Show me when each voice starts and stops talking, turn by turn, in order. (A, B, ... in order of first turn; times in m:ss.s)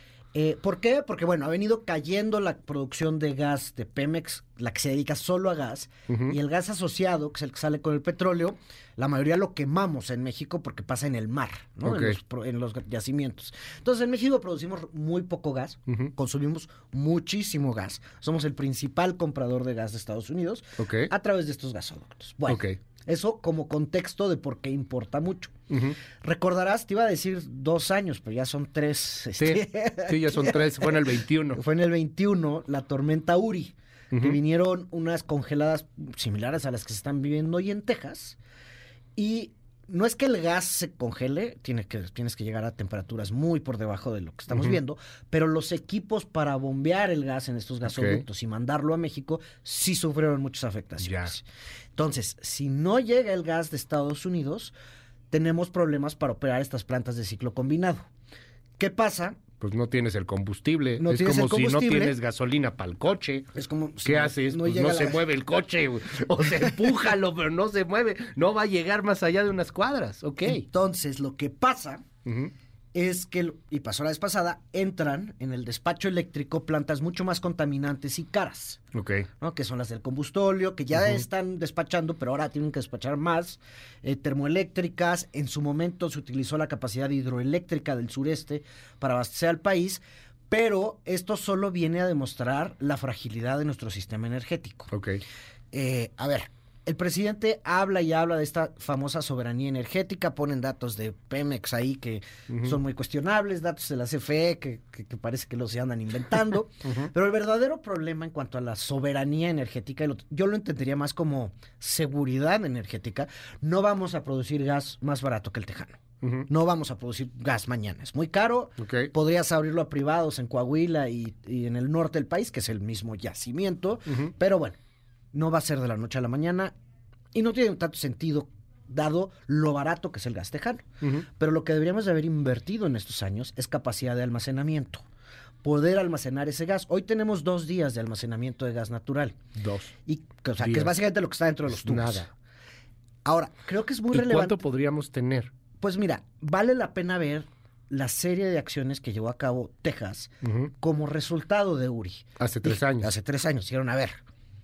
0:00.4-0:25.5 A
0:06.1-0:06.4 B
0:11.8-0:12.2 B
0:20.8-0:21.1 B
0:22.5-0:22.8 B
0:25.7-0:26.0 B
0:26.2-0:30.9 A
0:29.4-0:31.6 B
0:31.5-0:38.4 A
0:34.1-0:34.4 B
0:39.2-0:51.4 A
0:44.5-0:44.8 B
0:47.9-0:48.2 B
0:51.0-0:51.3 B
0:52.0-0:54.7 A
0:55.3-0:58.1 A
0:58.8-0:59.4 A
0:59.6-1:03.5 B
1:01.0-1:02.1 A
1:03.6-1:05.2 A
1:04.0-1:10.6 B
1:10.4-1:12.0 A
1:12.3-1:12.5 B
1:12.9-1:18.8 A
1:18.9-1:19.3 B
1:19.4-1:34.9 A
1:34.9-1:35.2 B
1:35.7-2:04.8 A
1:56.2-1:56.5 B
1:58.8-1:59.1 B
2:05.3-2:06.7 A
2:07.3-2:10.8 A
2:11.4-2:15.0 A
2:15.6-2:19.4 A
2:19.6-2:19.9 B
2:20.1-2:22.3 A
2:20.6-2:20.9 B
2:21.7-2:22.3 B
2:23.2-2:24.6 A
2:24.1-2:25.5 B
2:25.8-2:34.2 A
2:30.4-2:30.7 B
2:32.4-2:33.1 B